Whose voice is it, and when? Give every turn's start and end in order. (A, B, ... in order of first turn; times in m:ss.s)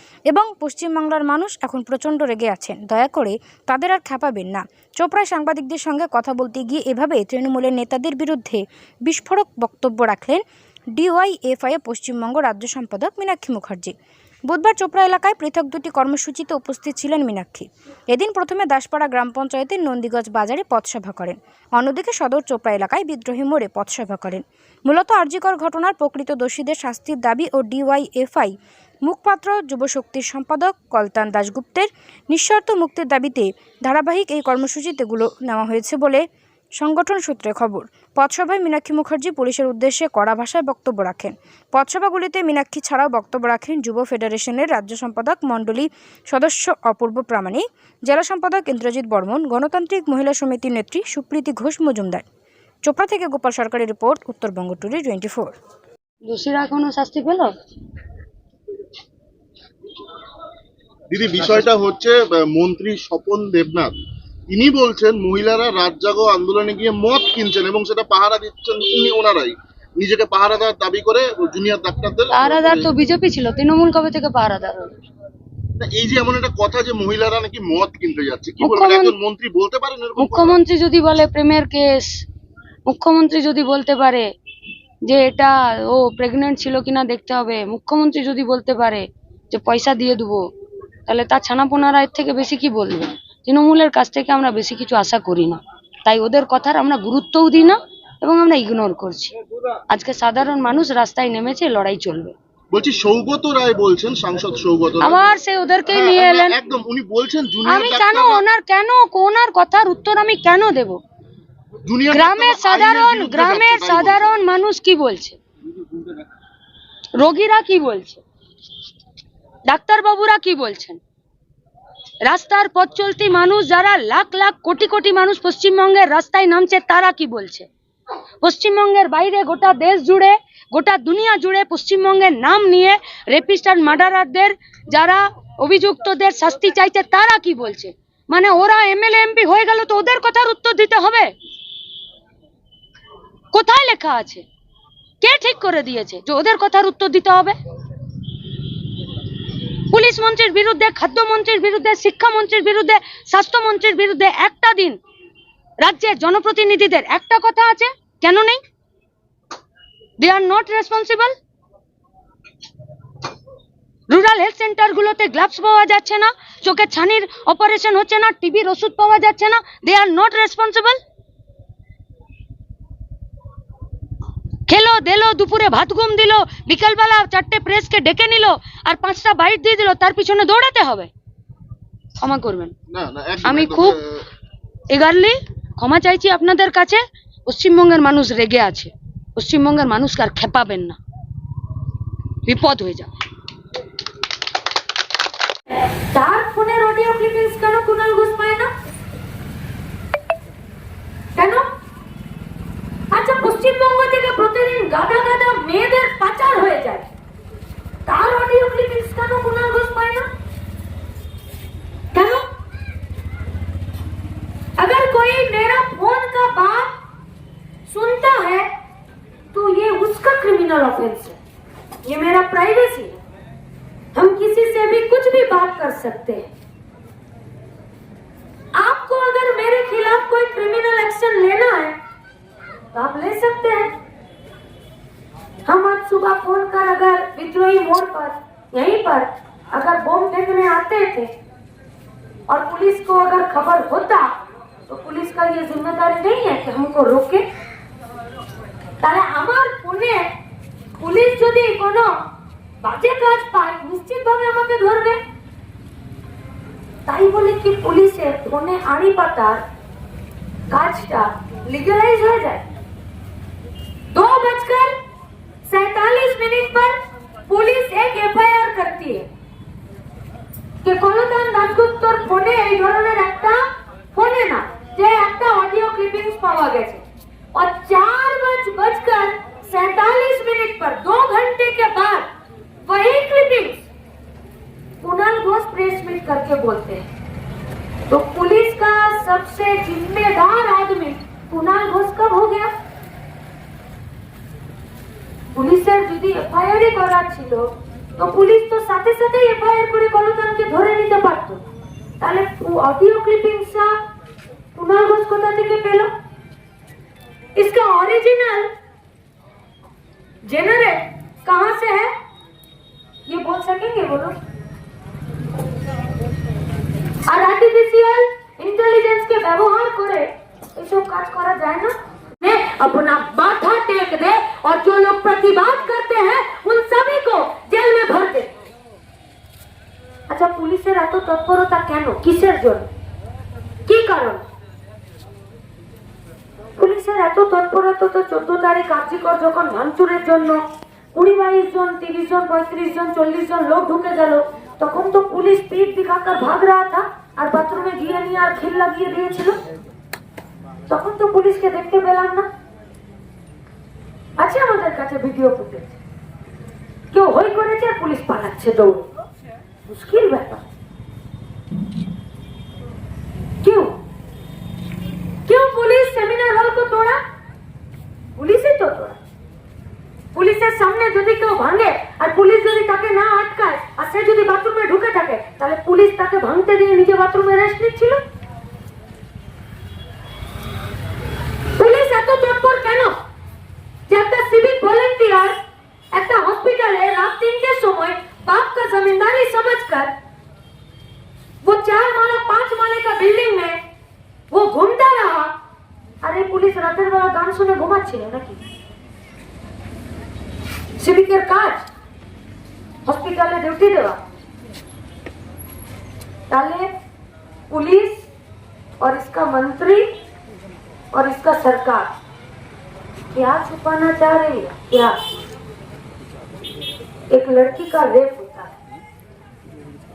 0:00.3-0:10.4 A
0:11.0-0:13.9 A
0:14.5-0:28.5 A
0:29.0-0:36.2 A
0:36.8-0:52.2 A
0:52.8-0:55.5 A
0:56.2-0:57.5 B
1:01.1-1:03.9 C
1:04.5-1:12.9 C
1:12.3-1:14.9 B
1:15.8-1:20.6 C
1:18.6-1:19.2 B
1:20.2-1:22.2 B
1:22.9-1:24.3 B
1:25.0-1:30.5 B
1:31.1-1:39.3 B
1:39.9-1:42.3 B
1:42.7-1:45.3 C
1:45.0-1:46.6 B
1:45.9-1:48.4 C
1:47.6-1:51.0 B
1:51.8-1:54.2 C
1:52.1-1:55.4 B
1:55.6-1:56.3 C
1:57.2-1:58.2 B
1:59.7-2:01.0 B
2:02.2-2:07.7 B
2:08.4-2:21.3 B
2:23.5-2:24.4 B
2:25.2-2:27.6 B
2:29.9-2:35.0 B
2:35.8-2:38.6 B
2:40.2-2:41.3 B
2:44.1-2:51.0 B
2:54.7-3:01.1 B
3:02.2-3:02.7 B
3:02.9-3:04.2 C
3:03.4-3:04.0 B
3:04.9-3:11.0 B
3:12.4-3:13.1 B
3:15.9-3:18.7 D
3:21.4-3:21.6 D
3:23.1-3:27.1 D
3:28.0-3:30.2 D
3:32.1-3:32.4 D
3:34.8-3:36.9 D
3:37.9-3:38.7 D
3:39.5-3:41.4 D
3:42.0-3:43.2 D
3:44.1-3:46.5 D
3:48.8-3:52.0 D
3:52.9-3:53.9 D
3:55.7-4:01.3 D
4:02.5-4:04.2 D
4:04.9-4:07.4 D
4:09.0-4:10.3 D
4:11.0-4:12.1 D
4:12.8-4:15.2 D
4:17.1-4:19.6 D
4:20.7-4:22.6 D
4:24.1-4:24.9 D
4:25.7-4:26.9 D
4:27.5-4:29.3 D
4:30.8-4:33.6 D
4:34.1-4:37.0 D
4:37.5-4:42.3 D
4:42.8-4:43.8 D
4:45.0-4:47.0 D
4:48.1-4:52.7 D
4:55.5-5:01.6 D
5:02.2-5:03.9 D
5:04.8-5:06.1 D
5:07.6-5:08.6 D
5:10.5-5:12.1 D
5:13.3-5:14.3 D
5:17.3-5:21.9 D
5:22.4-5:28.5 D
5:30.3-5:32.9 D
5:33.9-5:34.4 D
5:36.8-5:40.6 D
5:41.1-5:49.6 D
5:50.9-5:52.4 D
5:54.4-5:56.0 D
5:57.1-5:59.0 D
5:59.9-6:00.6 D
6:03.6-6:04.0 D
6:05.5-6:07.2 D
6:08.4-6:09.2 D
6:10.3-6:18.2 D
6:21.8-6:23.1 D
6:24.1-6:25.5 D
6:26.1-6:30.1 D
6:31.6-6:33.8 D
6:34.5-6:35.5 D
6:36.2-6:38.6 D
6:41.0-6:41.8 D
6:43.0-6:44.2 D
6:46.5-6:46.8 D
6:47.7-6:48.2 D
6:49.0-6:50.0 D
6:51.1-6:52.1 D
6:53.3-6:55.2 D
6:57.3-6:58.7 D